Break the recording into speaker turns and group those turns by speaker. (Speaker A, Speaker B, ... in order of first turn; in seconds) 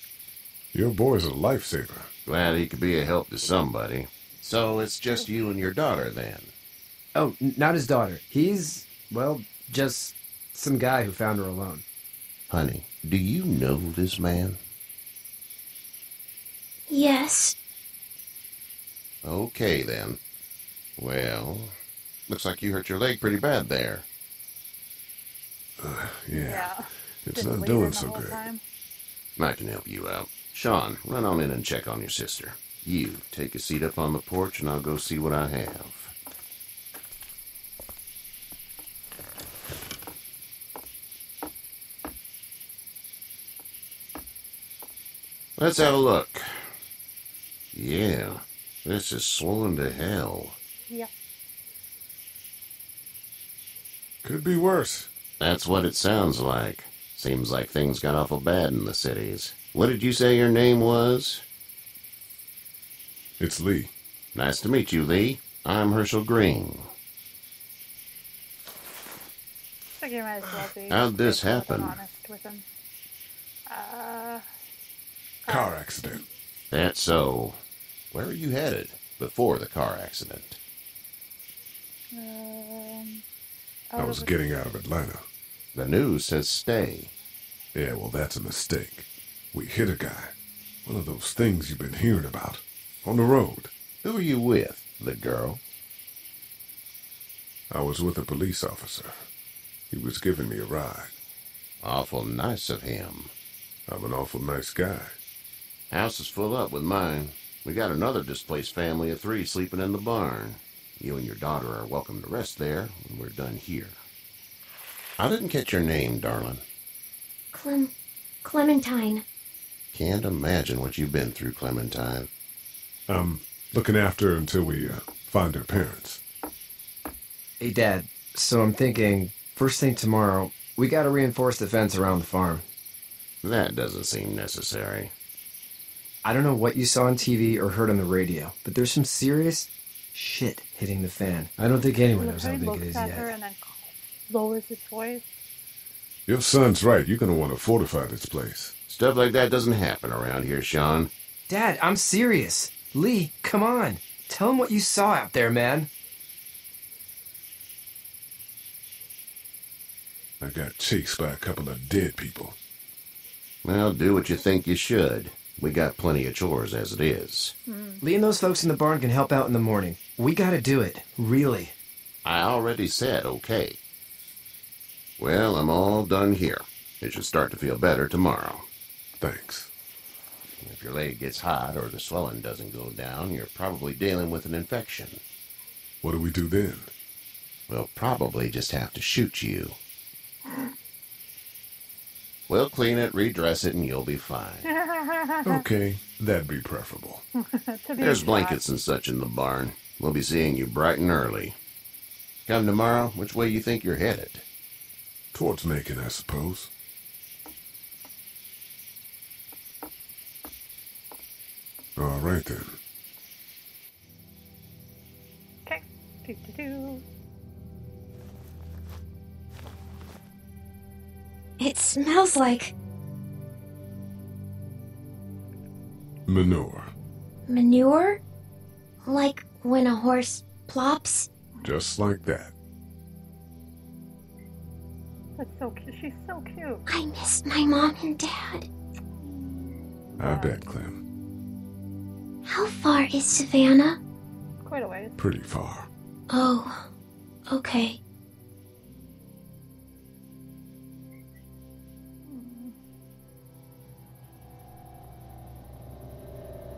Speaker A: 0.7-2.1, 25.8-28.4, 54.2-55.1, 63.4-63.9, 75.5-76.2, 84.0-85.2, 87.7-90.3, 90.8-93.7, 97.7-99.3, 99.9-101.1, 103.9-105.1, 123.1-126.2, 146.3-148.7, 160.4-162.6, 179.2-179.7, 186.0-186.9, 195.4-197.2, 205.3-206.7, 212.0-212.8, 226.3-226.9, 231.6-232.5, 240.2-241.0, 245.2-245.9
Speaker B: 2.2-6.5, 12.5-14.6, 19.2-20.2, 21.0-21.7, 22.3-24.1, 29.4-36.1, 45.6-46.7, 47.7-50.6, 55.4-61.4, 64.3-66.9, 70.9-72.0, 76.7-77.6, 78.1-80.6, 85.7-87.1, 94.0-95.6, 101.8-103.3, 105.9-114.0, 115.2-116.6, 119.9-122.3, 133.4-135.1, 148.9-151.1, 163.6-167.6, 172.2-173.8, 175.2-178.7, 180.6-185.2, 187.7-189.8, 192.5-194.7, 198.0-201.6, 202.4-204.4
Speaker C: 7.1-11.8, 127.6-132.6, 136.2-143.3, 151.5-155.9, 168.0-171.8
Speaker D: 16.9-17.6, 117.5-119.2, 221.6-222.7, 227.5-228.2, 229.0-231.3, 236.9-238.7, 242.4-244.0, 246.3-246.9, 247.5-248.0
Speaker E: 26.3-28.6, 70.0-72.6, 73.7-74.4, 75.5-75.8, 82.1-83.2, 83.9-84.4, 142.2-145.3, 167.7-168.0, 194.7-195.6, 197.4-198.6, 215.7-217.0, 235.4-236.8, 239.1-240.7, 244.6-245.2, 252.2-252.8